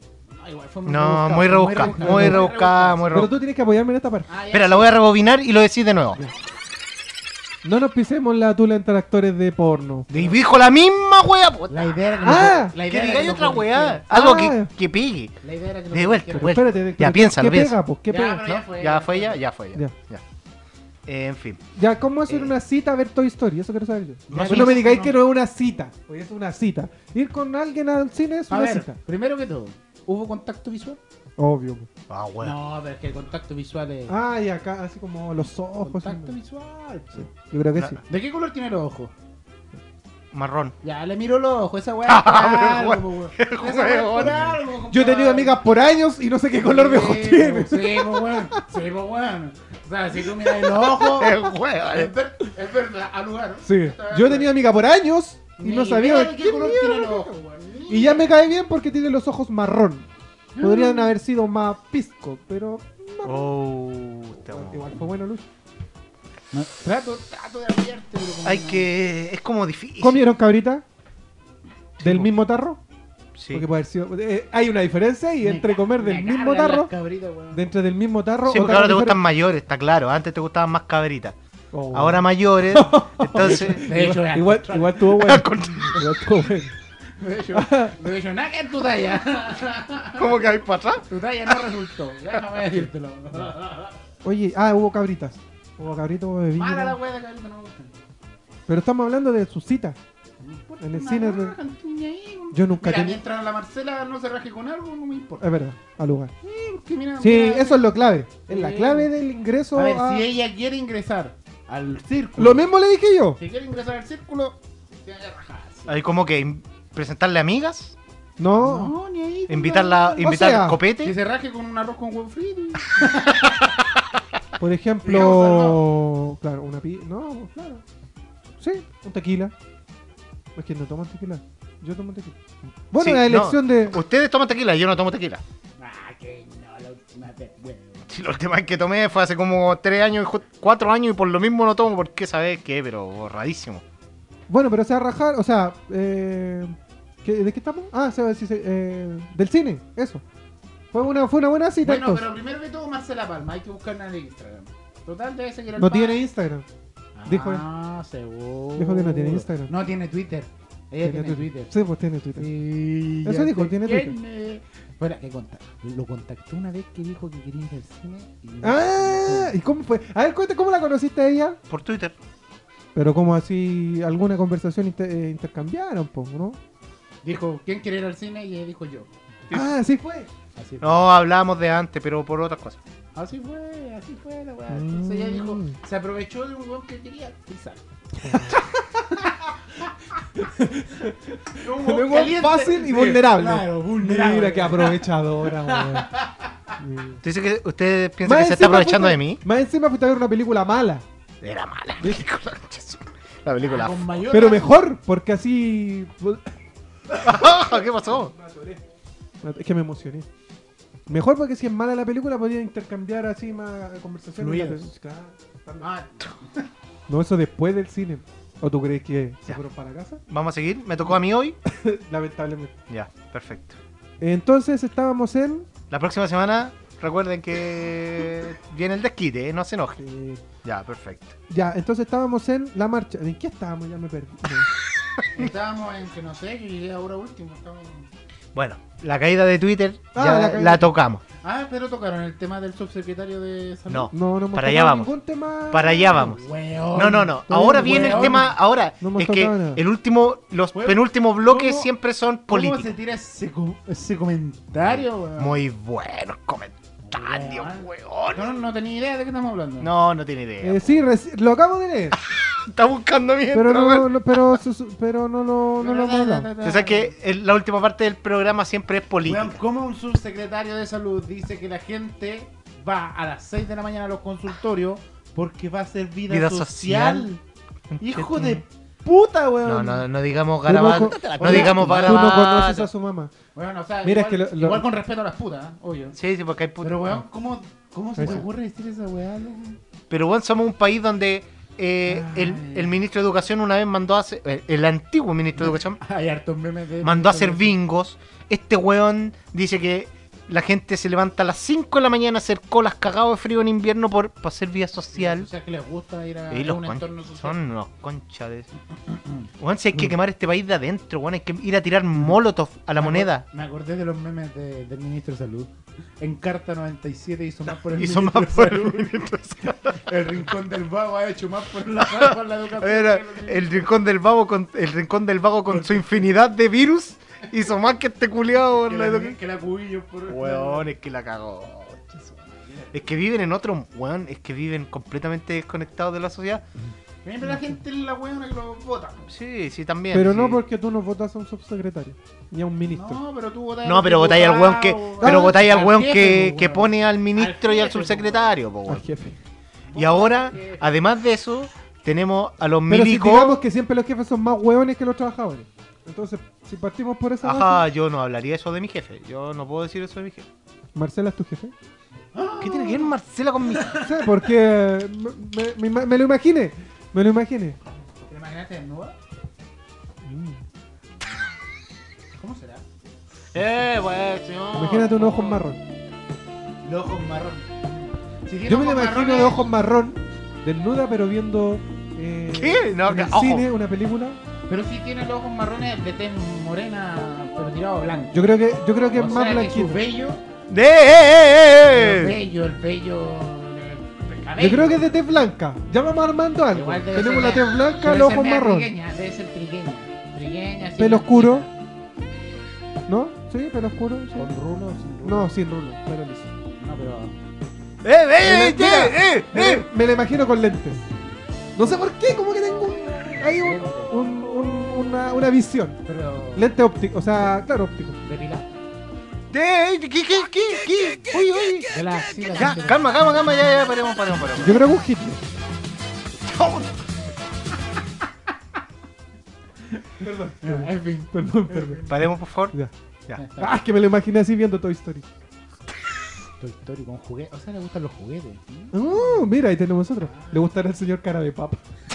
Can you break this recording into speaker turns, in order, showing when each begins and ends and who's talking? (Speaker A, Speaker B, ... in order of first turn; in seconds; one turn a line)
Speaker A: 0.3-3.3
Speaker B: 0.9-3.3
Speaker C: 1.8-2.5
Speaker C: 3.1-4.3
Speaker A: 4.3-5.0
Speaker B: 4.5-6.2
Speaker C: 7.6-10.1
Speaker B: 10.1-15.4
Speaker A: 11.7-14.0
Speaker C: 12.2-12.8
Speaker C: 14.1-14.7
Speaker A: 15.4-16.7
Speaker B: 15.9-17.8
Speaker C: 16.4-18.4
Speaker A: 18.1-19.4
Speaker B: 18.4-20.2
Speaker B: 21.1-21.6
Speaker C: 21.8-29.0
Speaker A: 24.3-25.2
Speaker B: 24.3-24.8
Speaker A: 28.5-31.0
Speaker C: 31.4-31.9
Speaker B: 32.1-32.5
Speaker A: 32.4-34.1
Speaker C: 34.1-36.3
Speaker A: 35.8-37.3
Speaker C: 37.1-38.0
Speaker B: 37.8-38.0
Speaker A: 38.1-39.1
Speaker B: 40.3-40.7
Speaker A: 40.8-45.7
Speaker B: 42.0-44.5
Speaker C: 44.9-48.6
Speaker A: 46.6-54.5
Speaker B: 51.0-52.1
Speaker C: 53.6-57.4
Speaker A: 55.6-58.3
Speaker C: 57.9-60.1
Speaker A: 60.5-61.1
Speaker C: 60.6-63.5
Speaker B: 63.2-64.9
Speaker C: 64.4-65.4
Speaker A: 66.5-68.9
Speaker B: 68.4-70.2
Speaker C: 70.0-70.8
Speaker B: 72.0-72.4
Speaker C: 72.0-72.8
Speaker B: 73.3-73.7
Speaker C: 73.5-76.9
Speaker A: 75.4-77.7
Speaker C: 77.5-79.2
Speaker B: 78.5-81.4
Speaker C: 81.7-86.7
Speaker B: 81.9-83.9
Speaker A: 83.5-85.2
Speaker B: 85.1-86.0
Speaker A: 87.2-90.3
Speaker C: 87.5-88.0
Speaker B: 90.2-91.6
Speaker A: 91.1-94.0
Speaker C: 94.2-97.0
Speaker A: 96.5-97.9
Speaker C: 98.7-100.0
Speaker A: 100.4-105.5
Speaker C: 100.8-101.5
Speaker C: 102.5-103.2
Speaker C: 105.4-106.3
Speaker A: 106.4-109.1
Speaker C: 107.2-110.2
Speaker A: 109.7-112.7
Speaker C: 112.4-113.4
Speaker A: 113.4-116.0
Speaker B: 115.9-118.0
Speaker C: 118.4-118.9
Speaker A: 118.6-120.3
Speaker B: 119.5-121.1
Speaker C: 120.2-120.8
Speaker A: 121.0-123.7
Speaker C: 124.6-127.8
Speaker A: 125.0-125.9
Speaker C: 128.6-129.5
Speaker C: 130.6-132.4
Speaker C: 132.9-134.0
Speaker B: 133.0-135.4
Speaker A: 135.8-138.1
Speaker B: 138.1-143.8
Speaker C: 144.5-150.2
Speaker C: 150.9-152.2
Speaker A: 151.8-156.2
Speaker C: 155.8-156.7
Speaker A: 157.2-161.7
Speaker C: 157.2-157.6
Speaker C: 158.8-159.7
Speaker C: 161.0-162.5
Speaker A: 162.4-169.6
Speaker C: 163.2-164.2
Speaker C: 168.6-171.6
Speaker B: 171.7-172.2
Speaker C: 172.9-176.6
Speaker A: 177.2-179.1
Speaker B: 179.5-179.7
Speaker C: 179.5-180.3
Speaker A: 180.6-181.0
Speaker B: 180.8-182.8
Speaker A: 183.1-189.9
Speaker C: 184.7-185.8
Speaker C: 188.3-188.6
Speaker C: 190.4-196.1
Speaker A: 191.6-196.5
Speaker C: 196.8-197.2
Speaker B: 197.2-199.4
Speaker C: 198.2-201.1
Speaker B: 201.4-204.2
Speaker A: 203.6-204.8
Speaker C: 204.3-206.5
Speaker C: 207.1-208.8
Speaker B: 207.2-208.3
Speaker C: 209.4-210.3
Speaker C: 211.1-215.9
Speaker A: 214.4-214.9
Speaker A: 215.8-216.7
Speaker C: 217.1-220.2
Speaker B: 220.3-221.6
Speaker C: 221.6-222.7
Speaker B: 222.9-223.8
Speaker C: 224.2-225.7
Speaker B: 225.9-230.0
Speaker C: 230.0-230.4
Speaker B: 230.6-231.3
Speaker C: 231.5-234.7
Speaker A: 235.4-238.1
Speaker B: 238.5-241.2
Speaker C: 240.1-240.9
Speaker A: 241.4-244.1
Speaker B: 243.9-245.1
Speaker C: 244.1-246.2
Speaker B: 245.7-252.9
Speaker A: 246.1-248.6
Speaker C: 247.4-249.8
Speaker A: 250.7-251.9
Speaker A: 252.5-255.6
Speaker B: 254.8-258.6
Speaker A: 257.0-259.9
Speaker B: 259.8-260.9
Speaker C: 260.6-262.2
Speaker B: 262.3-264.6
Speaker C: 263.5-266.5
Speaker A: 265.8-267.1
Speaker B: 266.6-269.6
Speaker A: 269.2-277.4
Speaker B: 276.3-277.4
Speaker B: 277.9-278.6
Speaker A: 278.0-280.0
Speaker B: 279.6-282.9
Speaker C: 280.6-283.3
Speaker A: 280.9-282.6
Speaker A: 283.6-286.2
Speaker C: 284.0-284.8
Speaker B: 286.1-287.2
Speaker A: 286.8-289.8
Speaker C: 288.2-288.4
Speaker B: 290.1-296.0
Speaker A: 292.1-293.0
Speaker A: 295.6-297.8
Speaker B: 297.0-305.5
Speaker A: 305.1-307.6
Speaker B: 306.5-308.7
Speaker A: 309.1-309.5
Speaker B: 309.6-313.4
Speaker A: 312.9-319.1
Speaker B: 317.8-320.1
Speaker A: 319.9-323.9
Speaker B: 322.0-329.4
Speaker A: 325.7-326.1
Speaker A: 328.8-330.9
Speaker B: 330.3-332.1
Speaker A: 332.2-332.9
Speaker B: 332.9-336.6
Speaker A: 337.2-339.3
Speaker B: 339.3-340.6
Speaker C: 340.1-343.2
Speaker A: 342.9-348.5
Speaker B: 343.8-349.1
Speaker C: 345.2-345.6
Speaker C: 348.9-349.4
Speaker A: 349.9-350.8
Speaker B: 349.9-353.6
Speaker C: 352.9-357.8
Speaker B: 357.4-360.5
Speaker C: 360.9-361.7
Speaker A: 362.3-364.4
Speaker B: 362.6-364.0
Speaker C: 364.0-367.8
Speaker A: 368.3-369.2
Speaker C: 370.2-370.6
Speaker A: 372.4-372.8
Speaker B: 373.5-375.4
Speaker C: 374.7-375.8
Speaker A: 375.2-375.6
Speaker A: 376.8-379.7
Speaker C: 378.6-384.4
Speaker B: 382.5-383.7
Speaker A: 384.7-388.4
Speaker C: 388.3-390.0
Speaker A: 389.1-390.4
Speaker B: 390.7-392.4
Speaker A: 391.8-395.2
Speaker C: 394.6-398.9
Speaker A: 396.7-401.7
Speaker C: 401.0-401.7
Speaker C: 403.1-404.6
Speaker A: 404.4-405.5
Speaker C: 405.2-406.5
Speaker A: 406.8-407.4
Speaker B: 408.0-409.9
Speaker C: 408.4-411.1
Speaker C: 411.8-416.0
Speaker A: 413.3-414.3
Speaker A: 416.1-416.7
Speaker C: 416.6-418.2
Speaker A: 418.2-418.7
Speaker B: 419.5-421.9
Speaker A: 421.9-423.3
Speaker B: 422.5-424.9
Speaker C: 424.6-425.4
Speaker B: 426.4-426.9
Speaker A: 429.9-432.2
Speaker C: 430.2-432.0
Speaker B: 432.1-432.7
Speaker A: 433.4-433.8
Speaker C: 433.6-435.3
Speaker A: 436.6-439.6
Speaker C: 438.9-441.8
Speaker A: 440.2-440.7